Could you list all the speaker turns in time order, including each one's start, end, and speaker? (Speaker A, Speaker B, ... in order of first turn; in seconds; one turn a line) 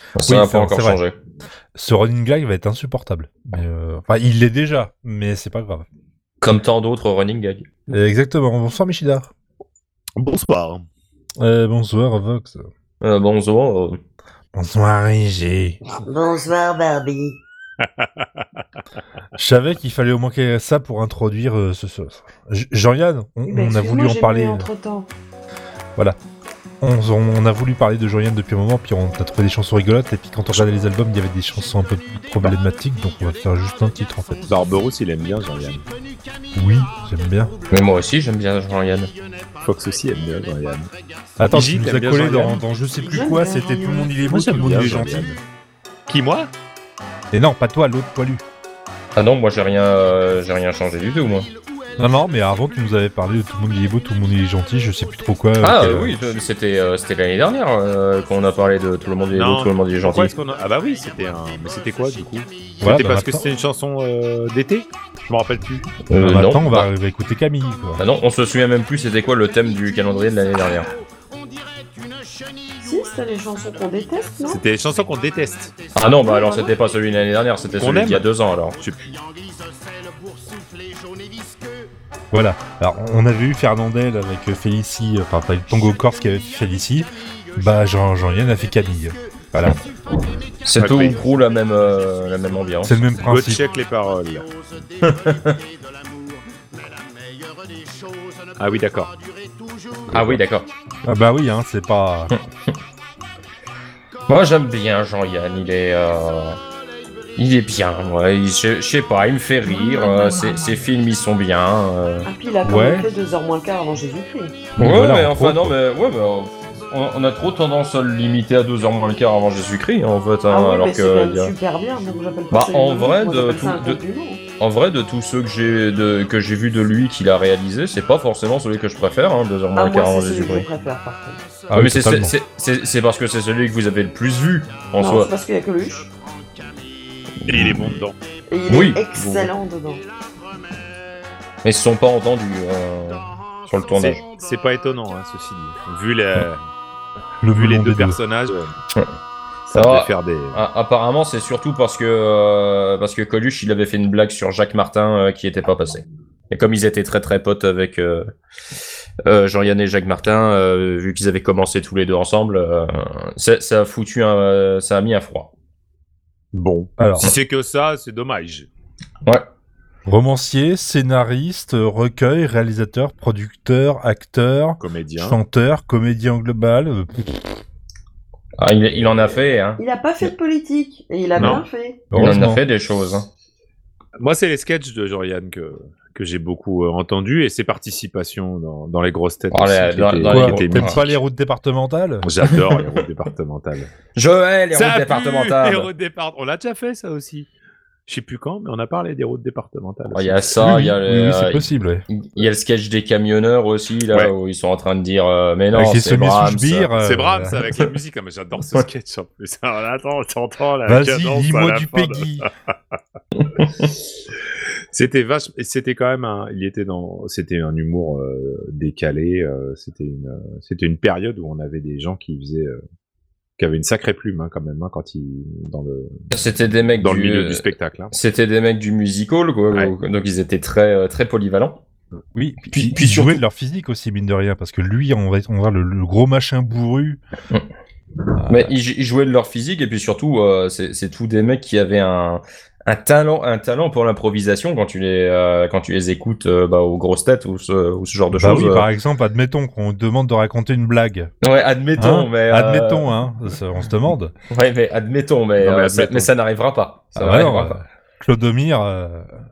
Speaker A: 0.2-1.2
Speaker B: 0.2-1.0
Speaker B: 1.8-5.8
Speaker A: 6.4-7.7
Speaker B: 7.9-9.3
Speaker C: 10.2-10.9
Speaker B: 11.4-12.7
Speaker A: 13.0-14.0
Speaker B: 14.5-15.8
Speaker D: 16.1-17.4
Speaker C: 17.8-18.5
Speaker B: 19.4-24.7
Speaker D: 23.5-25.1
Speaker B: 26.8-34.5
Speaker C: 34.5-35.8
Speaker B: 36.5-37.6
Speaker A: 37.7-39.1
Speaker C: 39.6-42.6
Speaker B: 41.4-45.3
Speaker D: 43.0-44.3
Speaker C: 44.2-45.4
Speaker C: 46.1-46.5
Speaker B: 47.3-48.4
Speaker A: 49.1-51.5
Speaker B: 52.0-56.1
Speaker A: 55.6-60.3
Speaker C: 59.3-66.0
Speaker B: 62.8-63.5
Speaker A: 66.1-66.9
Speaker B: 66.1-68.0
Speaker A: 68.0-70.9
Speaker D: 72.8-74.6
Speaker C: 74.5-75.7
Speaker A: 75.9-78.8
Speaker D: 76.2-76.7
Speaker C: 77.8-79.1
Speaker B: 82.3-89.8
Speaker A: 90.6-93.0
Speaker C: 90.8-91.2
Speaker B: 92.8-93.6
Speaker C: 93.2-94.5
Speaker A: 95.0-95.5
Speaker C: 98.6-99.1
Speaker C: 100.1-100.4
Speaker A: 100.1-100.7
Speaker B: 101.0-102.3
Speaker A: 102.3-102.7
Speaker A: 104.3-106.6
Speaker A: 107.4-112.3
Speaker D: 112.2-114.7
Speaker B: 112.6-113.1
Speaker B: 114.8-115.8
Speaker A: 114.8-121.5
Speaker D: 120.5-124.4
Speaker A: 122.5-124.0
Speaker A: 124.6-130.7
Speaker D: 129.7-131.4
Speaker B: 131.7-132.3
Speaker A: 131.7-135.3
Speaker D: 135.0-136.1
Speaker C: 137.5-138.2
Speaker A: 137.5-137.9
Speaker D: 138.5-140.1
Speaker A: 138.7-139.5
Speaker A: 141.6-144.2
Speaker C: 143.9-146.6
Speaker B: 147.4-148.2
Speaker C: 147.5-148.7
Speaker C: 149.7-150.6
Speaker A: 149.7-158.2
Speaker A: 159.2-165.5
Speaker C: 166.5-168.7
Speaker B: 167.0-167.3
Speaker B: 170.1-177.5
Speaker C: 174.8-175.4
Speaker A: 178.6-180.3
Speaker C: 179.0-179.4
Speaker D: 179.8-182.1
Speaker C: 181.4-181.7
Speaker B: 182.1-182.6
Speaker A: 182.2-183.3
Speaker C: 184.2-191.2
Speaker A: 189.5-191.1
Speaker B: 190.3-192.3
Speaker C: 192.2-193.9
Speaker A: 194.2-195.9
Speaker C: 194.7-197.5
Speaker C: 198.1-200.5
Speaker A: 200.1-206.9
Speaker B: 200.6-202.1
Speaker B: 205.7-207.6
Speaker C: 207.0-213.0
Speaker B: 210.9-212.5
Speaker A: 213.4-213.9
Speaker C: 214.9-222.8
Speaker C: 223.6-226.4
Speaker A: 226.3-231.8
Speaker C: 227.0-228.1
Speaker C: 229.7-229.9
Speaker B: 232.3-237.2
Speaker A: 232.7-233.4
Speaker B: 238.4-238.7
Speaker A: 238.5-248.9
Speaker B: 248.3-251.3
Speaker A: 251.4-253.1
Speaker B: 252.0-254.3
Speaker A: 254.5-257.8
Speaker C: 255.6-256.3
Speaker B: 257.1-259.4